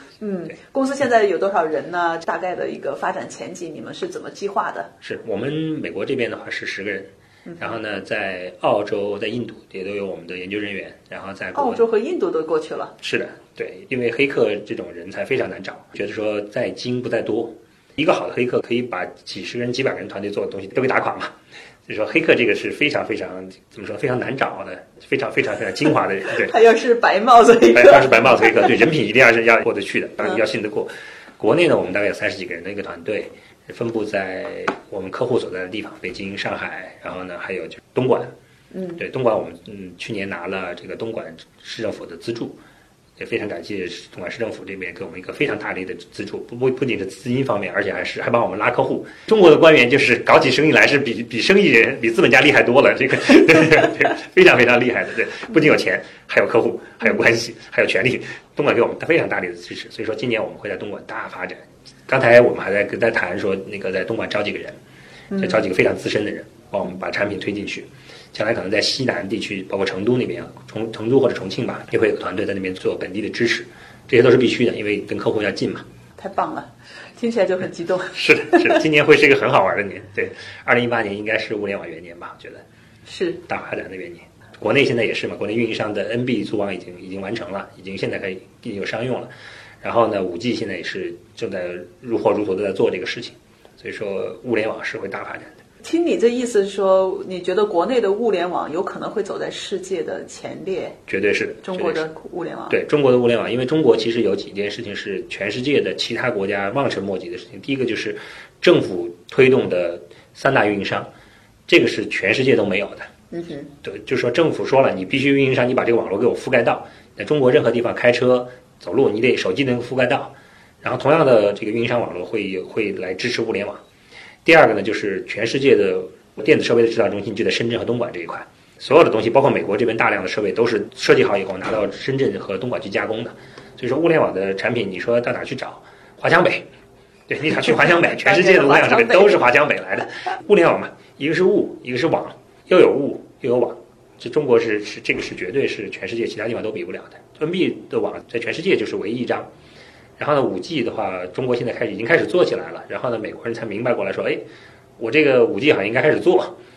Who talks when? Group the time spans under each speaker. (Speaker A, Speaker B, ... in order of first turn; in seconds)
Speaker A: 0.2-4.9, 7.5-7.8, 11.5-12.9, 26.3-28.7, 38.7-39.0, 65.3-65.6, 76.2-78.8, 83.0-83.4, 95.8-101.0, 101.6-102.8, 113.3-113.7, 137.8-139.4
Speaker B: 5.0-11.8, 13.0-21.3, 21.9-26.5, 27.7-38.3, 39.0-42.6, 43.2-64.8, 65.4-75.8, 78.1-82.6, 83.5-89.3, 89.8-95.6, 101.1-102.0, 102.7-111.1, 111.7-113.1, 113.8-123.8, 124.4-136.7, 137.3-149.5, 150.2-154.4, 155.0-156.5